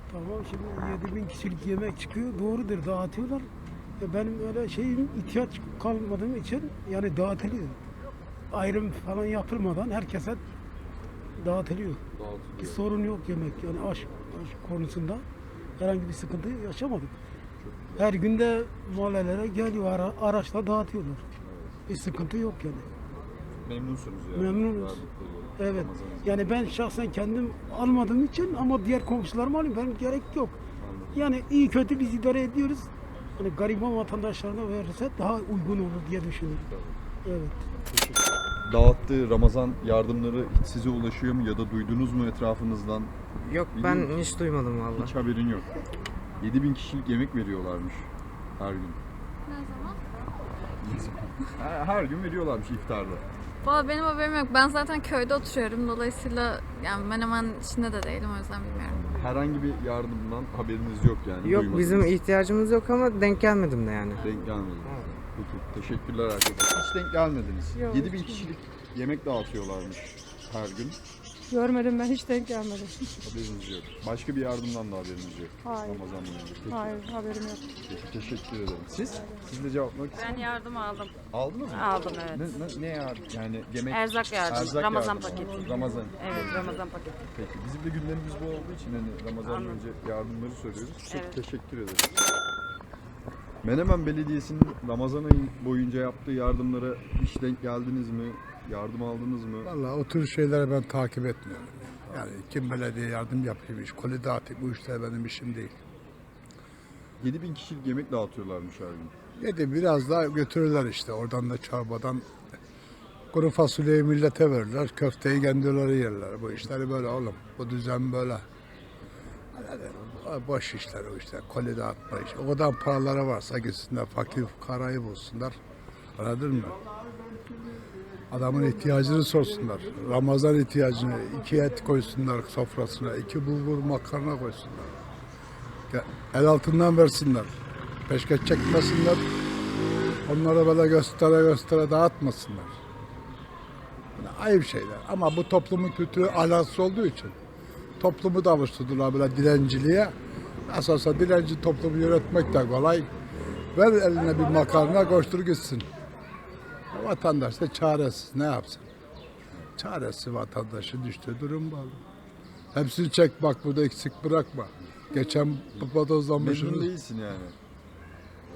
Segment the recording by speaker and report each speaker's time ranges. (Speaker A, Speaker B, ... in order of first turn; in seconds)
Speaker A: 0.1-3.5, 4.0-7.8, 8.5-10.4, 11.4-12.0, 12.6-15.2, 15.8-17.2, 18.0-21.2, 21.9-22.9, 24.4-25.0, 25.6-30.6, 31.1-36.6, 37.3-37.6
Speaker B: 12.2-13.1, 17.6-18.4, 21.4-21.7, 23.6-26.7, 30.8-31.2, 37.9-43.1, 43.7-45.6, 46.4-49.0, 50.8-53.2, 59.2-62.1, 64.2-71.0, 73.2-77.0, 77.9-80.5, 81.3-86.8, 87.3-92.2, 93.6-99.7, 107.2-109.1, 165.8-167.6
Speaker C: 43.5-45.1, 61.4-64.2
Speaker D: 49.5-49.9, 53.6-59.0
Speaker E: 67.8-68.5, 71.5-72.9, 75.7-76.0, 76.7-77.6
Speaker F: 80.2-81.1, 81.7-82.6, 83.9-87.1, 89.4-89.8, 91.1-91.4
Speaker G: 99.6-105.7, 109.4-112.2, 113.3-118.4, 119.5-125.6, 126.2-126.8, 128.3-135.0, 135.9-137.5, 138.1-139.2, 140.3-142.7, 144.2-147.3, 148.0-150.1, 150.7-153.1, 153.7-155.9, 156.9-158.8, 159.8-162.0, 162.7-166.9